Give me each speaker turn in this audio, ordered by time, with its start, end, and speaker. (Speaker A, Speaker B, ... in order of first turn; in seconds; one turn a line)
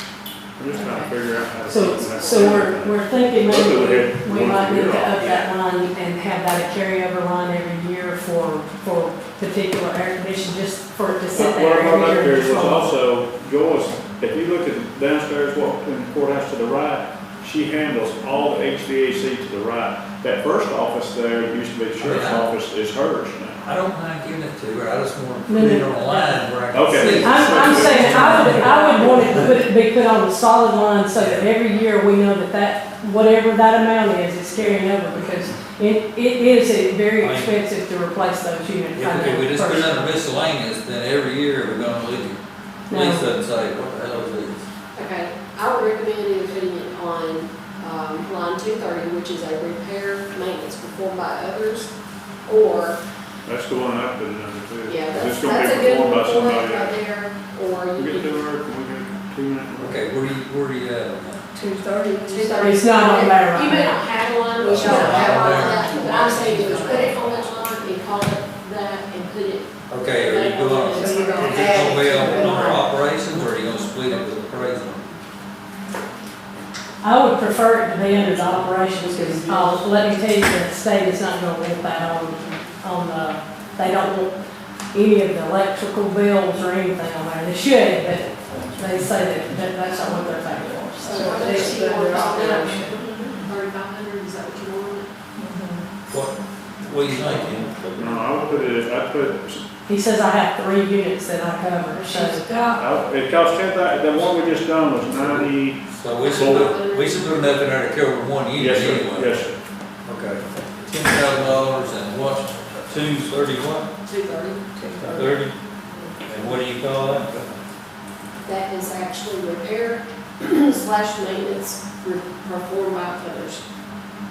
Speaker A: 0.6-5.2
Speaker B: 0.7-1.1
Speaker C: 1.7-12.9
Speaker B: 1.7-2.7
Speaker A: 11.3-23.6
Speaker D: 22.0-22.5
Speaker D: 23.6-29.5
Speaker C: 25.5-26.4
Speaker A: 26.7-29.4
Speaker C: 26.9-40.1
Speaker D: 31.1-31.5
Speaker D: 37.2-37.6
Speaker D: 38.9-44.6
Speaker C: 42.9-43.3
Speaker B: 44.9-51.9
Speaker B: 52.5-53.0
Speaker A: 53.4-57.0
Speaker B: 54.9-58.4
Speaker A: 57.9-60.0
Speaker D: 59.8-61.5
Speaker E: 61.5-62.8
Speaker B: 62.3-72.9
Speaker C: 62.6-64.0
Speaker E: 64.6-67.9
Speaker D: 64.6-66.6
Speaker D: 69.9-75.2
Speaker E: 70.9-72.8
Speaker C: 77.0-84.3
Speaker C: 84.9-91.1
Speaker E: 91.0-93.4
Speaker B: 91.0-95.1
Speaker E: 95.4-95.8
Speaker D: 96.1-98.7
Speaker A: 97.9-99.6
Speaker C: 99.9-102.4
Speaker E: 102.0-102.8
Speaker A: 102.7-105.8
Speaker D: 105.1-109.4
Speaker B: 106.2-107.6
Speaker A: 106.3-106.7
Speaker A: 108.5-109.5
Speaker D: 110.0-113.9
Speaker B: 114.0-114.6
Speaker E: 114.7-115.4
Speaker D: 115.0-115.5
Speaker D: 116.2-117.3
Speaker B: 118.4-123.6